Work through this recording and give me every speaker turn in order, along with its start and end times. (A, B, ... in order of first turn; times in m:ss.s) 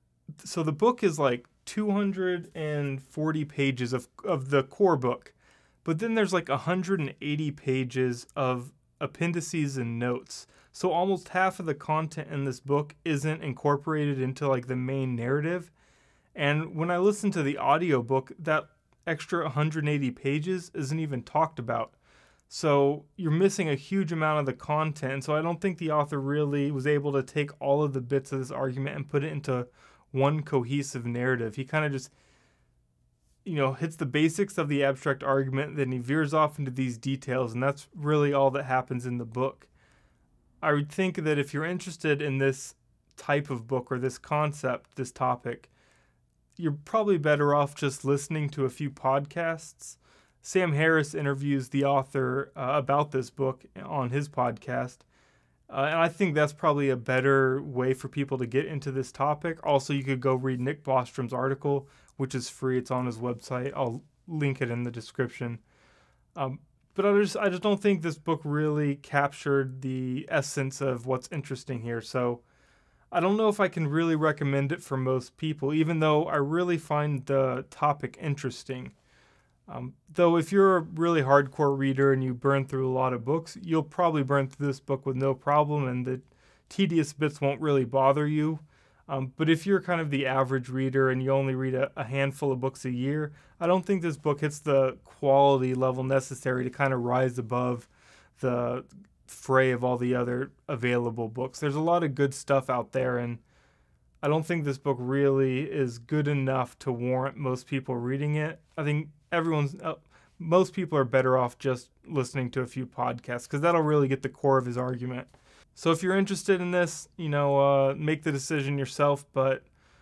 0:00.4-0:15.7 A
0:16.3-0:22.0 A
0:22.5-0:32.1 A
0:33.4-0:39.7 A
0:40.6-0:45.7 A
0:46.6-0:55.0 A
0:55.7-1:05.6 A
1:06.3-1:12.4 A
1:13.1-1:18.9 A
1:19.7-1:43.4 A
1:44.2-1:59.6 A